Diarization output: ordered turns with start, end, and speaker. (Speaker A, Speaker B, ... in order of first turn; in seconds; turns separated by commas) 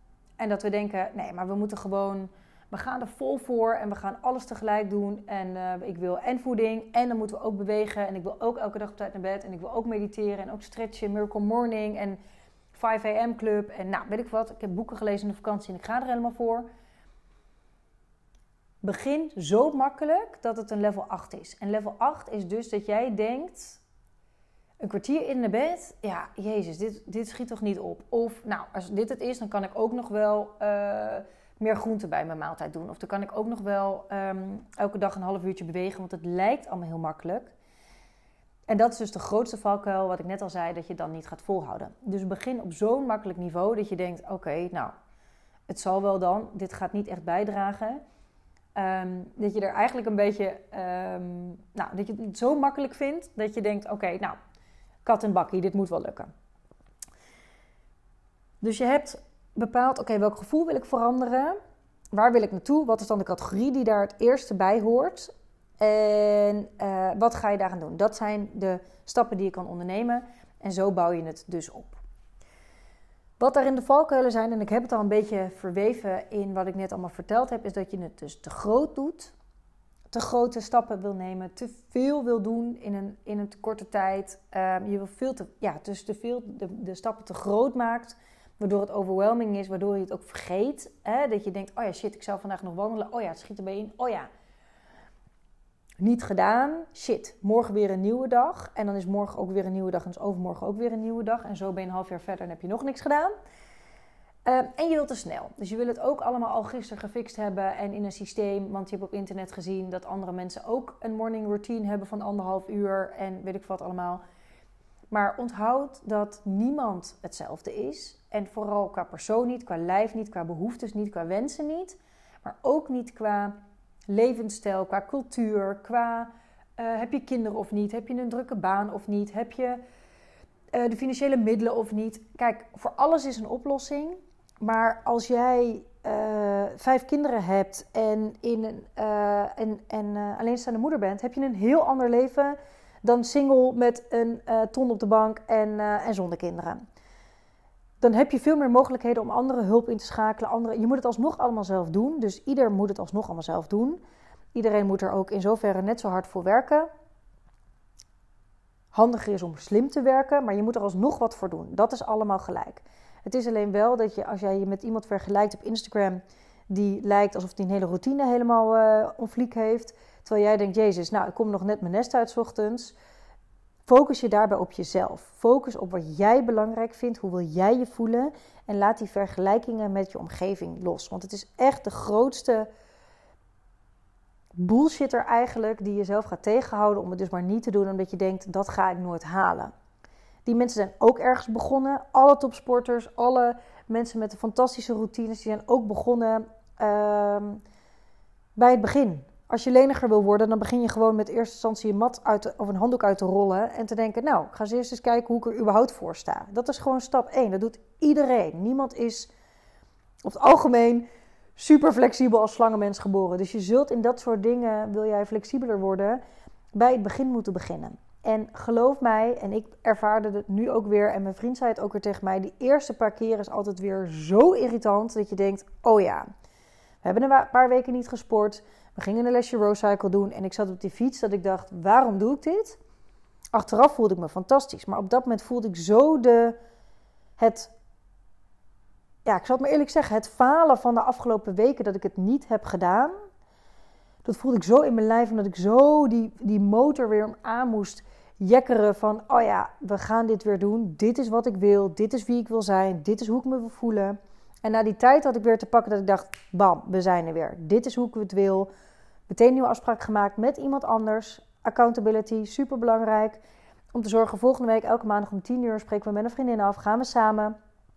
Speaker A: 0.4-12.2, Speaker A: 12.7-16.7, Speaker A: 18.8-23.8, Speaker A: 24.8-37.5, Speaker A: 38.7-44.9, Speaker A: 45.7-48.0, Speaker A: 48.8-54.4, Speaker A: 55.0-56.3, Speaker A: 58.6-61.6, Speaker A: 62.1-72.0, Speaker A: 73.4-79.3, Speaker A: 80.1-94.3, Speaker A: 96.0-103.3, Speaker A: 104.4-114.2, Speaker A: 115.1-123.6, Speaker A: 124.1-129.8, Speaker A: 130.7-146.8, Speaker A: 148.0-154.0, Speaker A: 154.5-156.9, Speaker A: 158.9-172.9, Speaker A: 173.9-182.7, Speaker A: 184.6-189.7, Speaker A: 190.4-197.6, Speaker A: 198.6-209.3, Speaker A: 210.2-216.2, Speaker A: 216.8-226.3, Speaker A: 227.0-232.8, Speaker A: 233.5-236.6, Speaker A: 237.4-237.7, Speaker A: 239.2-243.1, Speaker A: 244.2-258.7, Speaker A: 259.3-267.6